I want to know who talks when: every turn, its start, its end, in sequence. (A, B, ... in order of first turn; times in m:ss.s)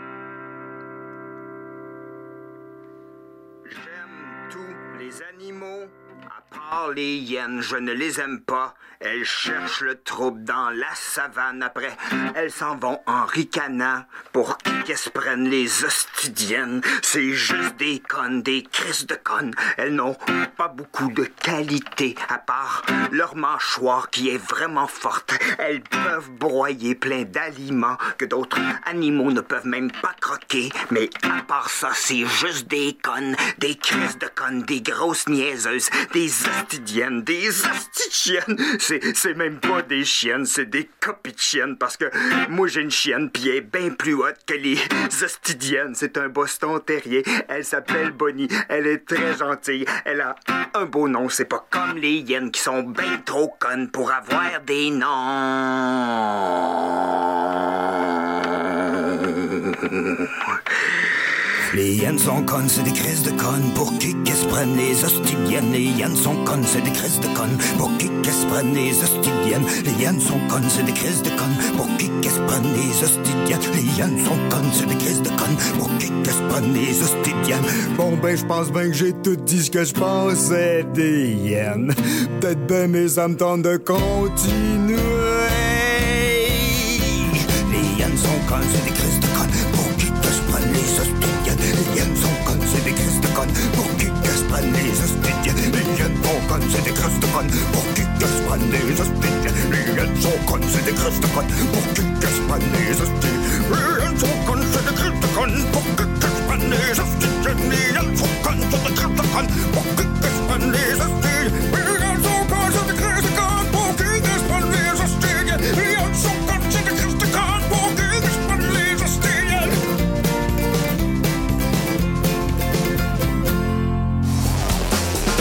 0:03.7-0:57.1 A
0:59.1-1:00.3 A
1:01.6-1:59.8 A